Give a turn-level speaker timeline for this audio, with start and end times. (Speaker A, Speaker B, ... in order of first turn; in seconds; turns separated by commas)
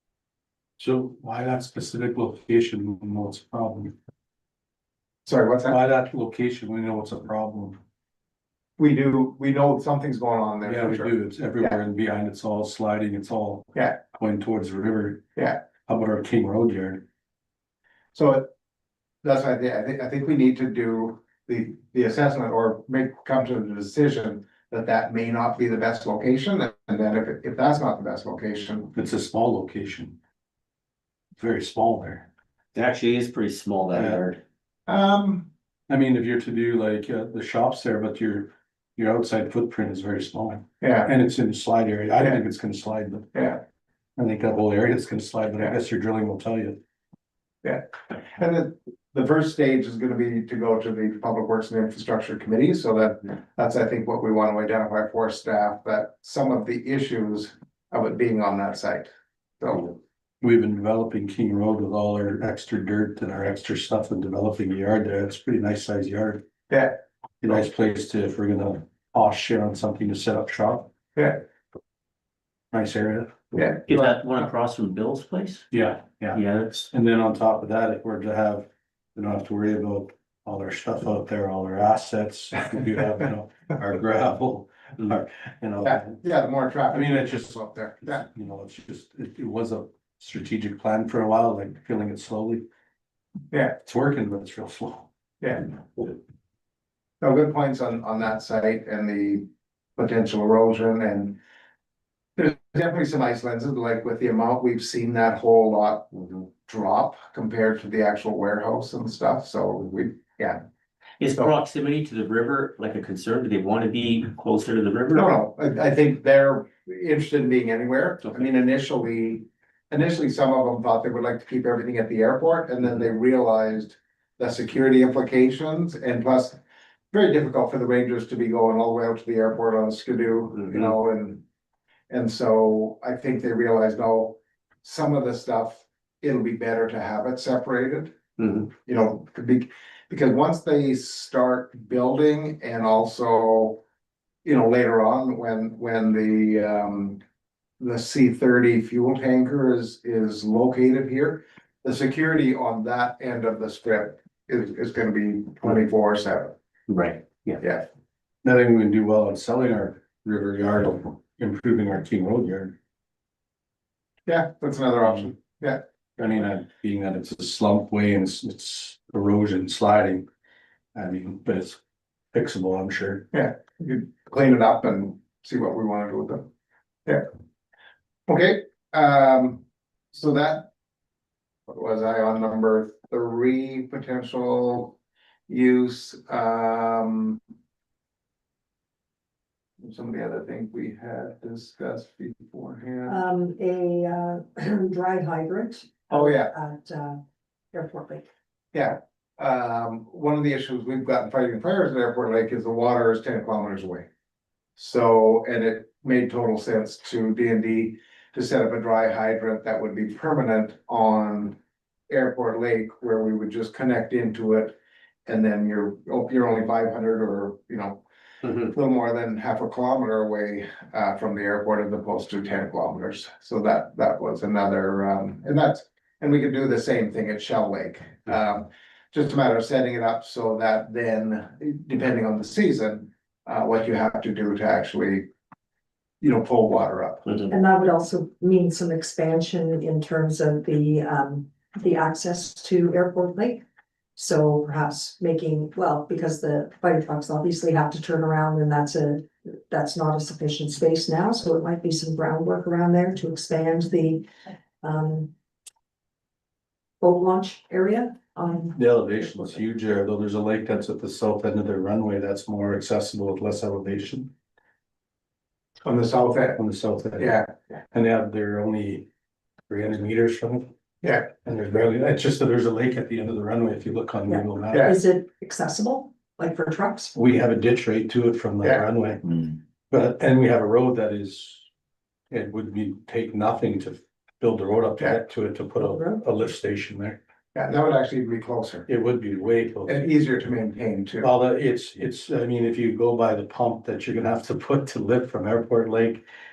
Speaker A: 0.8-3.9, Speaker B: 5.2-5.8, Speaker A: 5.7-7.8, Speaker B: 8.8-11.1, Speaker A: 10.6-15.2, Speaker B: 15.3-15.6, Speaker A: 15.8-17.0, Speaker B: 18.1-18.5, Speaker B: 19.2-28.9, Speaker A: 28.9-30.2, Speaker A: 31.4-32.3, Speaker C: 32.7-34.4, Speaker A: 33.9-34.2, Speaker B: 34.9-35.5, Speaker A: 35.9-43.3, Speaker B: 40.8-41.1, Speaker B: 43.3-43.6, Speaker A: 44.1-46.8, Speaker B: 47.6-60.0, Speaker A: 60.4-66.4, Speaker B: 66.7-67.0, Speaker A: 67.4-70.9, Speaker B: 71.2-71.4, Speaker A: 72.7-73.3, Speaker B: 73.5-74.1, Speaker C: 73.9-75.7, Speaker A: 75.7-86.2, Speaker C: 76.3-76.8, Speaker B: 85.8-88.2, Speaker A: 86.9-92.6, Speaker A: 93.8-95.1, Speaker B: 95.4-95.7, Speaker B: 97.2-101.4, Speaker B: 102.4-106.1, Speaker B: 106.6-110.6, Speaker C: 111.2-115.3, Speaker B: 115.1-126.6, Speaker B: 127.1-131.4, Speaker B: 132.1-138.2, Speaker C: 138.4-138.6, Speaker B: 138.7-143.8, Speaker B: 144.4-147.2, Speaker B: 147.8-156.5, Speaker C: 156.9-157.6, Speaker A: 158.4-162.8, Speaker B: 164.3-165.8, Speaker A: 166.2-170.2, Speaker A: 170.9-171.8, Speaker A: 172.3-173.2, Speaker B: 173.3-176.5, Speaker B: 178.3-180.7, Speaker B: 181.7-185.0, Speaker B: 185.5-187.4, Speaker B: 189.8-193.2, Speaker D: 193.1-197.2, Speaker B: 196.1-196.5, Speaker D: 197.7-198.2, Speaker B: 198.7-204.1, Speaker B: 204.8-211.6, Speaker B: 212.1-235.2, Speaker B: 236.2-237.4, Speaker D: 237.5-243.6, Speaker D: 244.2-254.2, Speaker D: 254.8-255.3, Speaker D: 257.0-258.7, Speaker A: 258.7-264.3, Speaker B: 265.8-266.6, Speaker A: 266.6-269.1, Speaker B: 267.2-267.5, Speaker A: 269.7-270.7, Speaker B: 271.0-271.3, Speaker A: 271.3-274.9, Speaker D: 274.3-277.1, Speaker B: 274.7-274.9, Speaker A: 277.1-281.7, Speaker A: 282.3-287.2, Speaker D: 285.8-286.2, Speaker B: 287.5-288.9, Speaker A: 288.9-290.1, Speaker B: 289.9-291.3, Speaker A: 291.2-296.2